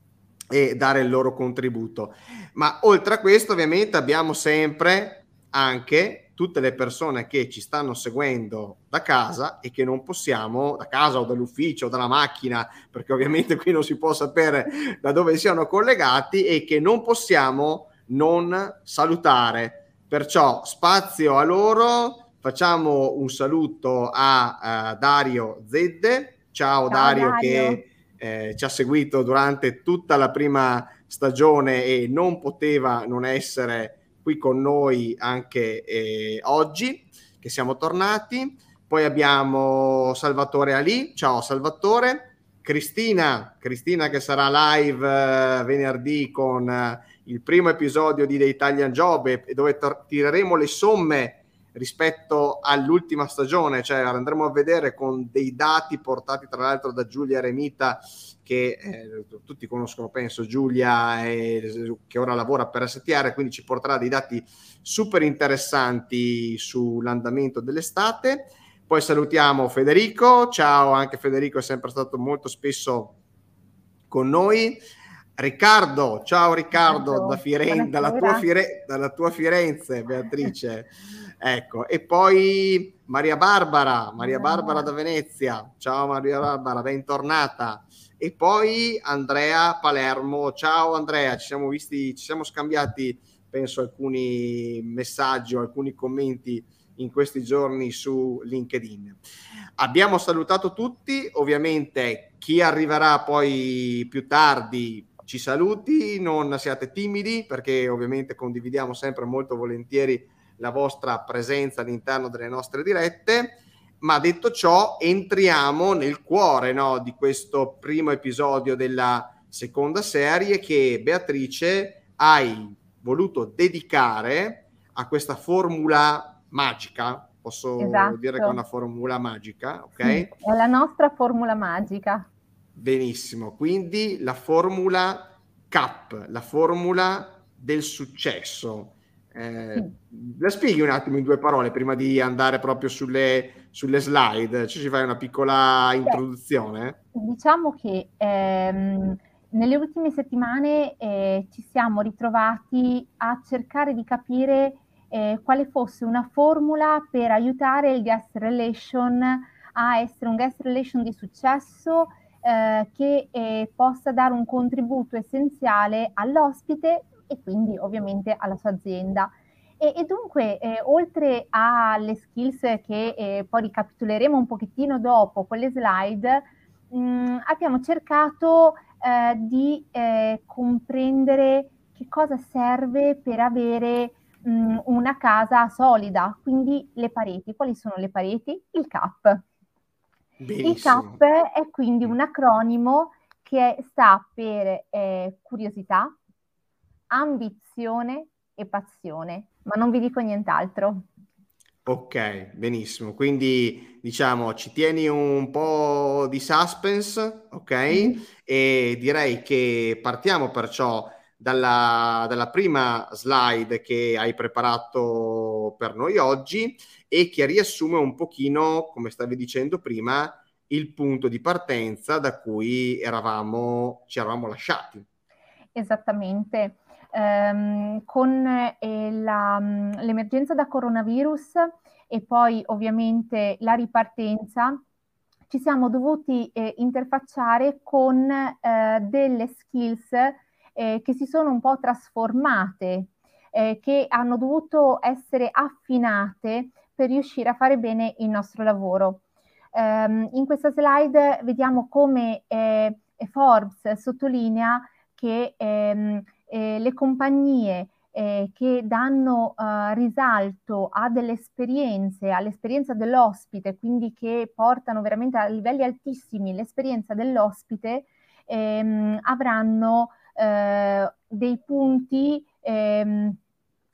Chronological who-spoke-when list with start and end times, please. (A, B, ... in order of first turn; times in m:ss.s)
0:00.5-1:13.1 A
0:26.9-0:27.8 B
1:14.1-1:14.8 A
1:15.4-1:39.2 A
1:16.7-1:18.4 B
1:24.2-1:24.9 B
1:39.8-2:10.3 A
2:07.8-2:08.6 B
2:10.0-2:12.3 B
2:12.8-2:27.0 A
2:27.1-3:09.4 B
3:10.4-3:11.2 A
3:10.6-3:16.1 B
3:17.1-3:21.0 B
3:21.8-3:45.0 A
3:27.9-3:28.2 B
3:45.7-3:54.8 B
3:55.5-4:09.2 B
4:09.7-4:33.4 B